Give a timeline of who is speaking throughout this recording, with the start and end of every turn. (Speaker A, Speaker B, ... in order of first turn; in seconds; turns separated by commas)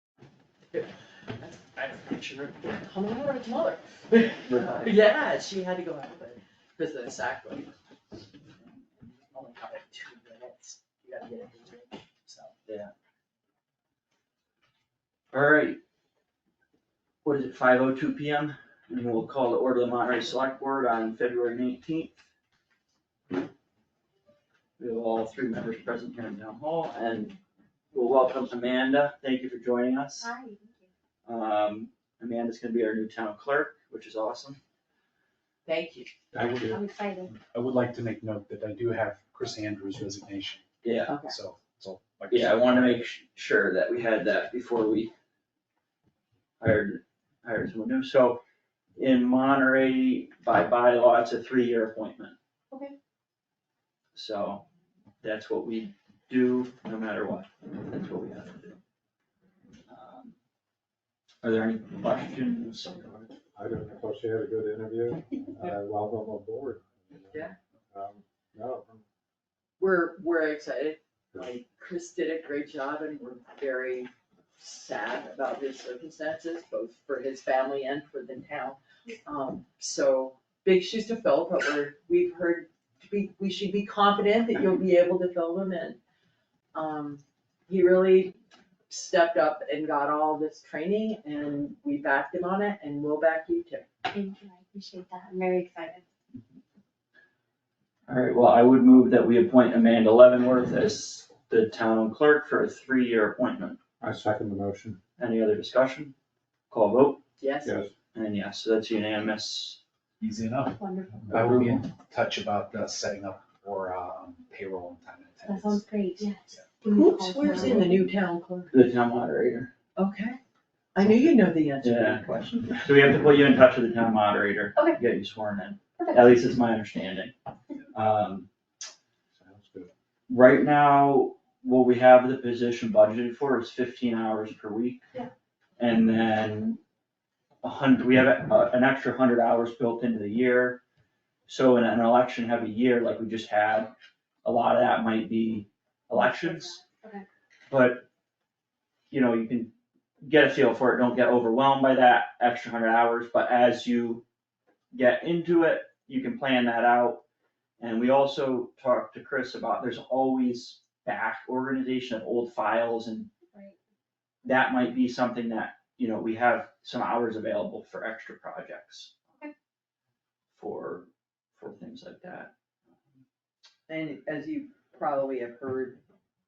Speaker A: 0.7-7.7, Speaker B: 4.5-5.0, Speaker A: 9.0-12.6, Speaker B: 12.7-12.9, Speaker B: 15.3-15.8, Speaker B: 17.2-22.2, Speaker B: 24.8-27.4, Speaker B: 27.9-30.3, Speaker C: 30.2-30.9, Speaker B: 31.3-34.6, Speaker A: 35.6-36.1, Speaker D: 36.3-36.8, Speaker E: 36.4-36.7, Speaker C: 36.7-37.3, Speaker E: 37.3-43.1, Speaker B: 40.8-41.1, Speaker A: 41.1-41.4, Speaker B: 42.3-45.1, Speaker B: 46.6-48.4, Speaker B: 49.0-52.4, Speaker B: 54.1-54.6, Speaker B: 55.2-58.7, Speaker B: 59.9-60.3, Speaker B: 61.4-63.3, Speaker D: 63.5-69.0, Speaker A: 69.8-86.0, Speaker A: 86.7-88.4, Speaker A: 88.9-93.9, Speaker C: 94.1-96.0, Speaker B: 98.1-103.8, Speaker D: 104.0-105.0, Speaker B: 105.2-106.1, Speaker B: 106.7-107.2, Speaker A: 107.4-107.8, Speaker D: 107.7-107.9, Speaker B: 108.1-109.8, Speaker E: 110.2-110.8, Speaker C: 110.8-111.1, Speaker D: 111.2-111.8, Speaker E: 111.3-115.8, Speaker C: 115.5-118.1, Speaker A: 116.9-118.7, Speaker B: 118.7-119.7, Speaker A: 120.0-120.4, Speaker A: 121.0-122.9, Speaker B: 121.8-122.2, Speaker B: 122.8-127.3, Speaker B: 127.9-128.5, Speaker D: 129.4-129.9, Speaker B: 130.3-135.0, Speaker B: 135.8-136.8, Speaker B: 137.6-140.8, Speaker B: 141.5-143.9, Speaker B: 144.4-146.8, Speaker C: 146.1-147.3, Speaker B: 147.7-148.1, Speaker B: 149.1-154.2, Speaker B: 154.9-157.2, Speaker B: 157.8-163.3, Speaker B: 164.4-169.1, Speaker B: 170.6-172.5, Speaker A: 173.9-176.0